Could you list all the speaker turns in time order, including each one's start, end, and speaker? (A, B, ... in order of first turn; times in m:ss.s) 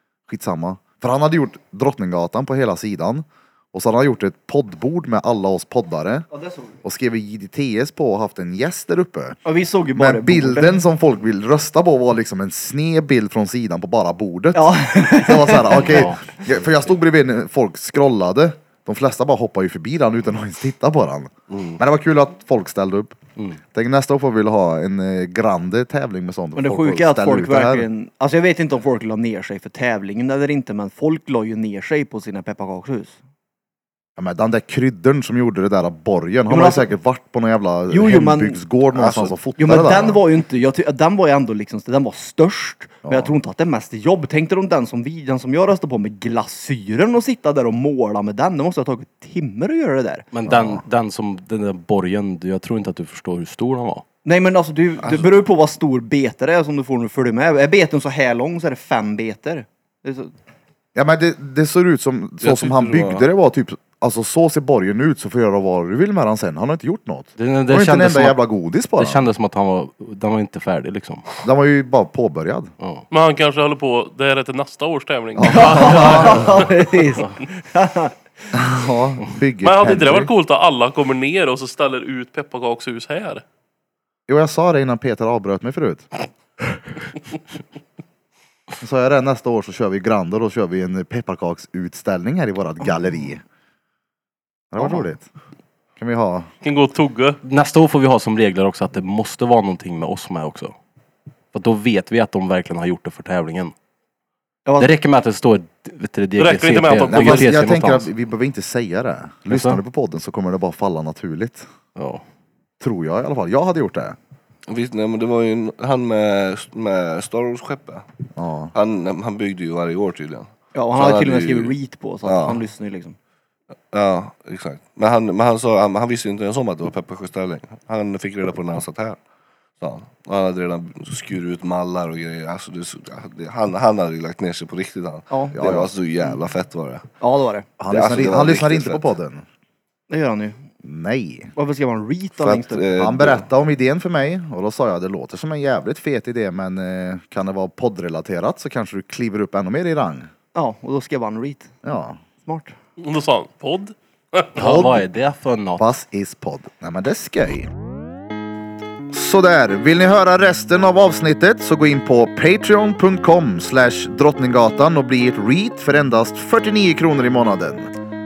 0:00.3-0:06.3 A
0:06.3-0:06.8 B
0:06.8-0:09.4 A
0:09.4-0:10.8 B
0:10.0-0:23.2 A
0:14.6-0:16.1 B
0:15.7-0:16.2 C
0:21.5-0:21.8 D
0:23.7-0:27.9 A
0:26.6-0:33.2 B
0:34.2-0:40.2 A
0:36.5-0:36.9 B
0:37.9-0:38.6 B
0:38.9-0:39.4 D
0:39.6-0:50.3 B
0:43.0-0:43.3 A
0:50.3-0:54.0 C
0:50.5-0:50.8 A
0:54.2-1:00.3 B
0:55.0-0:55.3 D
1:01.0-1:09.2 A
1:02.4-1:03.3 D
1:07.4-1:08.4 C
1:09.0-1:11.2 C
1:11.4-1:12.7 A
1:13.1-1:16.7 E
1:15.4-1:16.6 A
1:15.4-1:18.1 B
1:18.5-1:20.3 A
1:19.6-1:23.4 E
1:24.3-1:26.1 A
1:28.8-1:33.4 A
1:34.7-1:35.3 A
1:34.8-1:35.1 B
1:36.0-1:36.5 A
1:36.6-1:37.4 E
1:37.4-1:40.7 C
1:41.5-1:43.7 C
1:44.6-1:45.0 B
1:44.8-1:48.1 C
1:46.4-1:47.6 E
1:47.0-1:51.7 A
1:49.5-1:49.8 C
1:52.0-1:52.2 C
1:52.8-1:54.2 A
1:54.7-1:58.1 D
1:58.4-1:58.7 A
1:58.7-2:02.6 D
2:00.7-2:03.2 B
2:03.9-2:09.2 D
2:09.8-2:17.1 D
2:15.3-2:15.6 B
2:15.5-2:15.9 A
2:17.2-2:17.7 B
2:17.8-2:19.4 A
2:17.9-2:19.1 D
2:20.1-2:20.7 B
2:20.8-2:21.5 A
2:21.6-2:22.9 B
2:22.4-2:23.5 D
2:23.0-2:30.3 A
2:30.5-2:31.7 B
2:31.8-2:32.2 A
2:32.4-2:32.8 B
2:33.0-2:34.7 E
2:34.6-2:35.8 C
2:34.6-2:35.1 A
2:35.8-2:37.7 A
2:39.1-2:47.9 A